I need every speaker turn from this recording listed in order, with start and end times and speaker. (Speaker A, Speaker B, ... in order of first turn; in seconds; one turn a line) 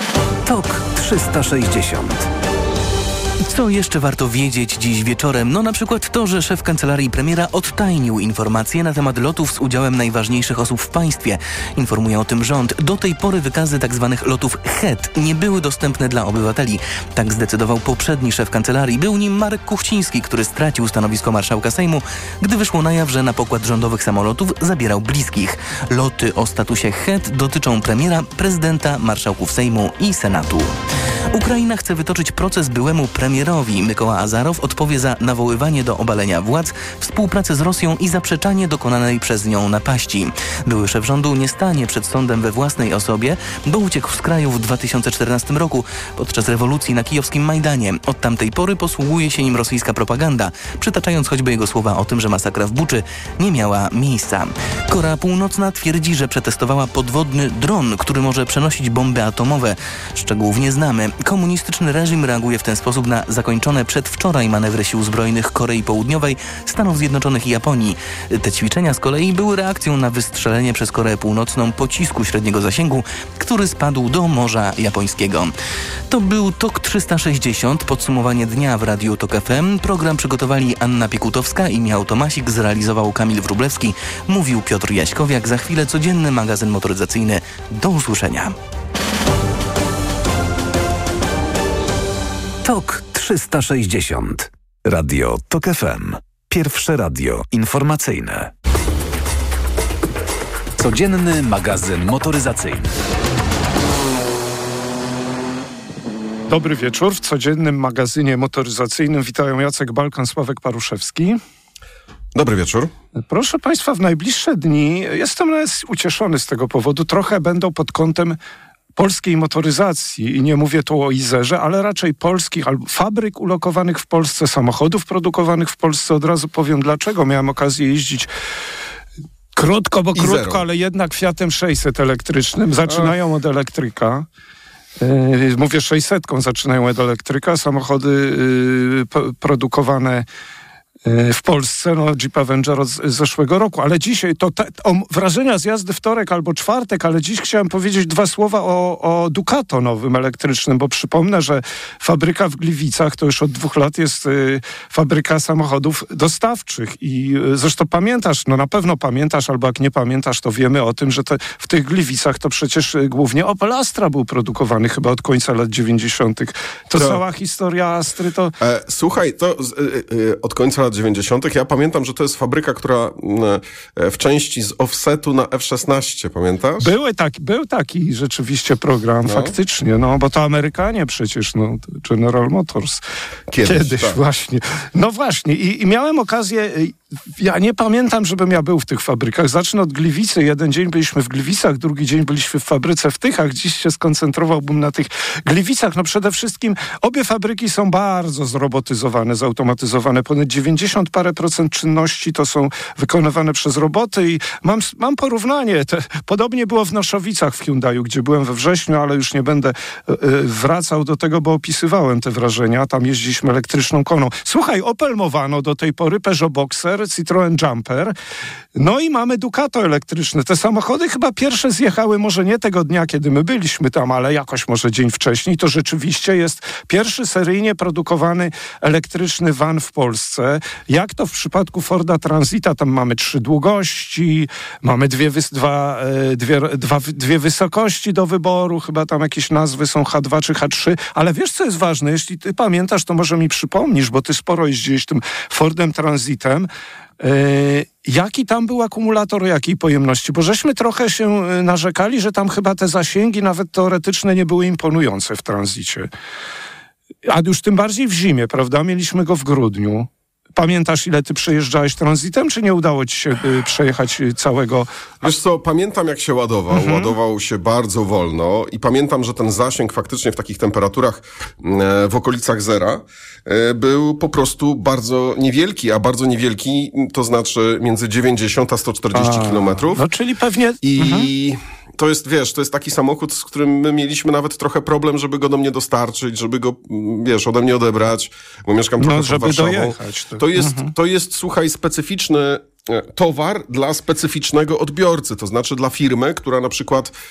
Speaker A: 0.5-2.3
Speaker B: 3.5-30.7
Speaker B: 31.3-75.5
Speaker B: 76.1-88.5
Speaker A: 92.6-98.5
Speaker A: 100.8-102.9
Speaker C: 106.5-111.4
Speaker D: 112.3-112.9
Speaker C: 113.3-118.4
Speaker C: 119.0-128.3
Speaker C: 129.6-134.2
Speaker D: 130.2-130.6
Speaker C: 135.0-140.2
Speaker C: 141.0-168.5
Speaker D: 168.6-176.9
Speaker C: 176.8-183.0
Speaker D: 179.2-179.5
Speaker D: 183.5-184.2
Speaker C: 183.6-218.1
Speaker C: 218.8-246.7
Speaker C: 247.2-256.1
Speaker C: 257.3-264.9
Speaker D: 265.2-280.0
Speaker C: 266.7-267.1
Speaker C: 279.1-281.3
Speaker D: 280.8-297.1
Speaker C: 289.0-290.9